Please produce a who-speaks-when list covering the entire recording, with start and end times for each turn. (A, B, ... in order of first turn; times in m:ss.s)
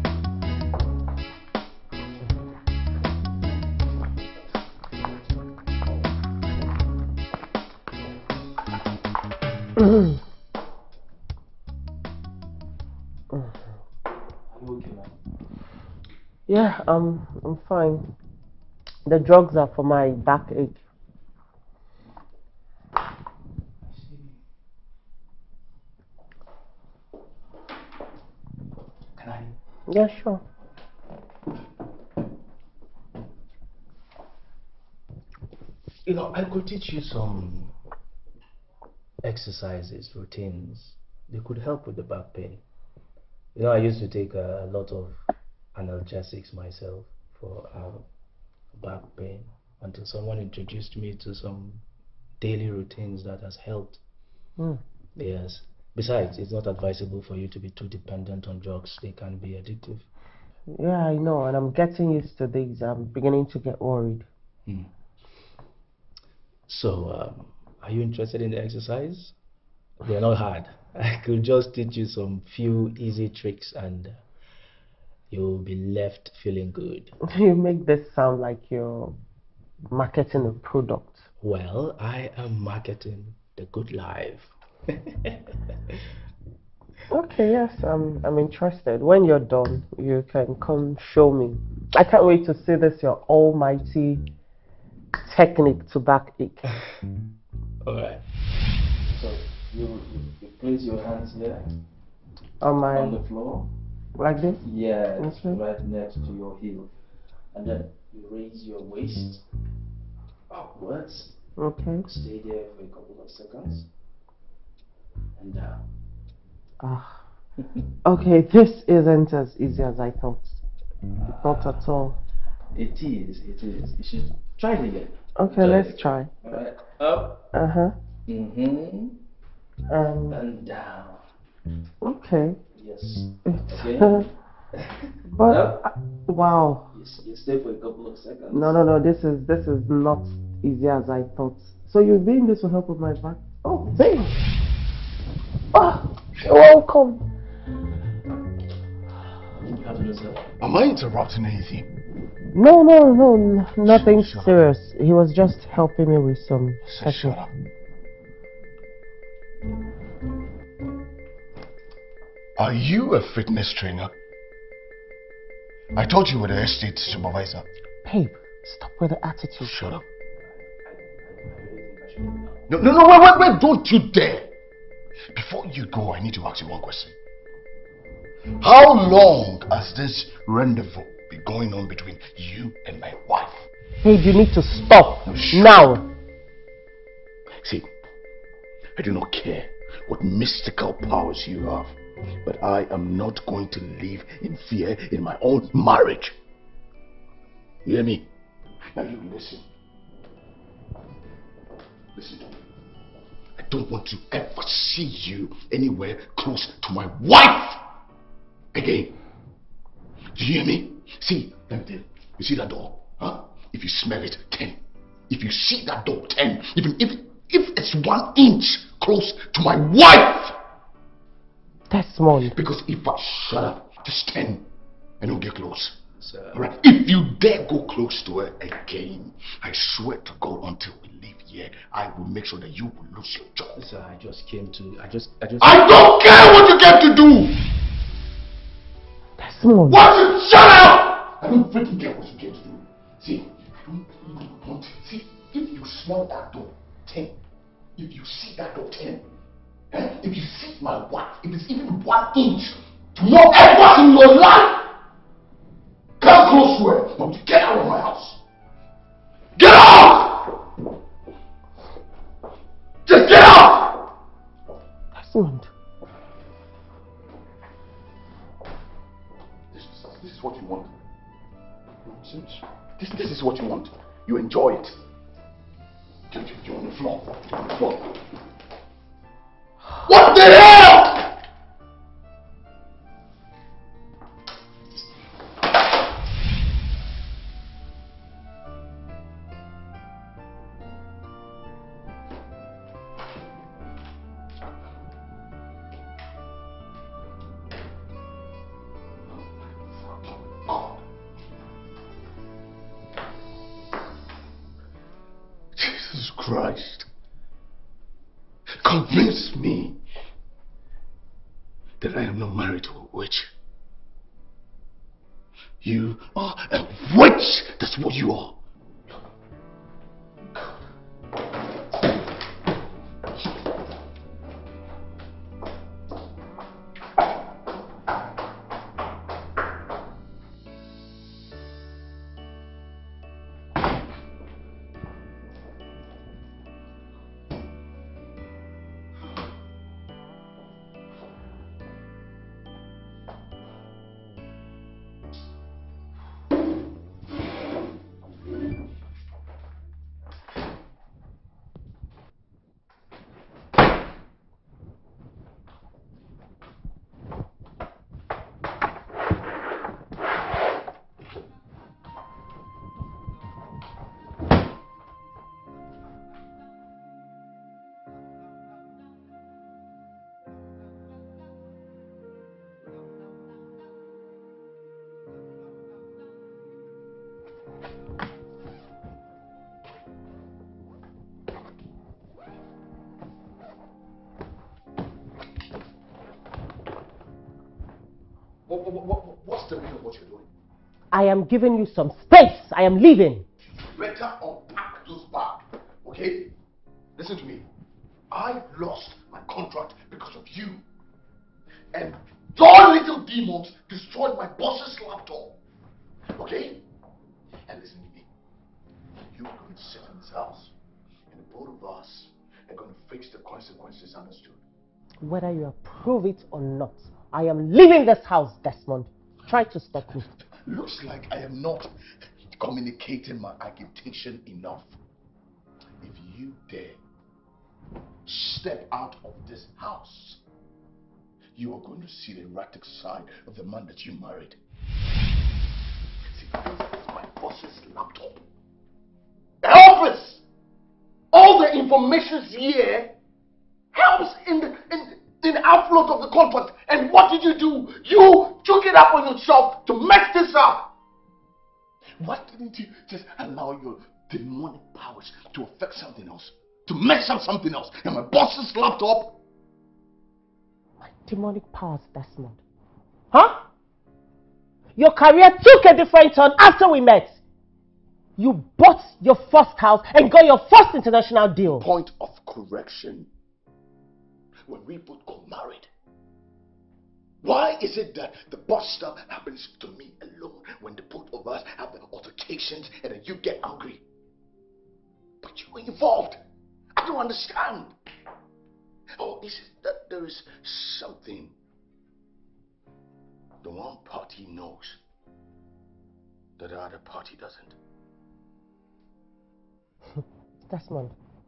0:09.8-0:10.1 A
0:14.5-0:15.2 B
0:16.5-0:18.1 A
0:19.1-0:20.8 A
0:23.8-0:24.4 B
0:29.2-0:29.6 B
0:29.9-0:30.4 A
0:36.1-0:37.7 B
0:39.2-0:42.6 B
0:43.6-0:45.2 B
0:45.7-0:48.1 B
0:48.7-0:51.8 B
0:52.4-0:54.0 B
0:55.2-1:00.1 B
1:00.7-1:04.3 A
1:06.7-1:09.4 B
1:10.0-1:14.2 B
1:15.3-1:17.1 B
1:17.2-1:19.2 A
1:19.9-1:21.2 A
1:21.4-1:25.4 B
1:27.1-1:34.2 A
1:35.2-1:36.8 A
1:37.8-1:38.2 B
1:39.1-1:41.7 B
1:42.6-1:43.2 A
1:42.9-1:43.7 B
1:44.2-1:44.6 A
1:44.6-1:46.9 B
1:45.2-1:45.6 A
1:47.5-1:49.4 B
1:50.5-1:51.4 B
1:51.6-1:52.1 A
1:52.0-1:53.9 B
1:55.4-1:55.8 B
1:56.8-1:57.2 A
1:58.0-2:00.6 A
2:01.2-2:01.8 B
2:01.4-2:02.2 A
2:02.7-2:07.5 B
2:05.4-2:06.3 A
2:07.5-2:08.0 A
2:08.3-2:09.2 B
2:09.9-2:10.4 A
2:10.3-2:11.3 B
2:12.0-2:12.6 A
2:12.8-2:15.9 B
2:13.5-2:14.3 A
2:15.3-2:16.9 A
2:16.9-2:18.8 B
2:18.5-2:24.4 A
2:25.7-2:27.3 A
2:29.6-2:30.5 B
2:30.6-2:31.9 C
2:32.5-2:37.4 A
2:33.8-2:34.6 C
2:36.8-2:37.6 C
2:42.6-2:44.2 C
2:45.9-2:47.7 C
2:48.0-2:49.7 A
2:49.6-2:50.1 C
2:50.6-2:52.7 B
2:52.7-2:54.6 C
2:55.3-2:57.2 C
2:58.6-3:03.7 C
3:04.0-3:06.1 A
3:05.2-3:05.9 C
3:07.6-3:07.9 C
3:09.0-3:16.4 C
3:17.8-3:18.3 C
3:18.9-3:19.7 C
3:22.1-3:22.6 C
3:23.6-3:27.8 C
3:28.7-3:29.2 C
3:30.3-3:40.6 C
3:41.9-3:42.6 A
3:42.4-3:44.7 C
3:45.2-3:46.0 C
3:46.2-3:46.6 B
3:46.5-3:53.8 C
3:53.8-3:56.0 B
3:55.6-3:57.6 C
3:59.4-4:00.1 A
3:59.9-4:07.4 C
4:08.0-4:09.3 C
4:09.9-4:15.0 C
4:16.2-4:18.4 C
4:19.6-4:20.6 C
4:23.1-4:24.0 C
4:25.1-4:25.7 A
4:29.7-4:31.0 C
4:32.0-4:35.0 C
4:36.3-4:38.2 C
4:40.0-4:41.4 C
4:59.2-5:01.0 C
5:05.7-5:07.1 C
5:08.7-5:10.0 C
5:12.0-5:13.5 C
5:15.8-5:18.6 C
6:28.7-6:30.5 C
6:31.1-6:33.5 A
6:33.7-6:36.6 C
6:37.2-6:37.7 C
6:38.3-6:40.8 C
6:41.9-6:45.6 C
6:46.3-6:46.8 C
6:47.7-6:48.3 C
6:49.3-6:50.7 C
6:51.3-6:54.6 C
6:55.2-7:00.3 A
7:00.2-7:01.9 C
7:02.5-7:05.0 C
7:06.0-7:07.0 C
7:08.3-7:10.4 C
7:11.6-7:14.6 C
7:16.3-7:18.4 C
7:19.6-7:20.4 C
7:21.3-7:23.2 C
7:23.9-7:30.9 C
7:32.2-7:39.4 C
7:41.0-7:42.6 A
7:43.3-7:43.7 A
7:45.0-7:47.4 A
7:48.4-7:51.9 A
7:51.8-7:53.3 C
7:54.7-7:55.9 C
7:57.4-8:04.0 C
8:05.4-8:06.4 C
8:07.0-8:08.0 C
8:09.2-8:11.6 C
8:13.6-8:15.0 C
8:16.6-8:17.8 C
8:20.7-8:21.2 A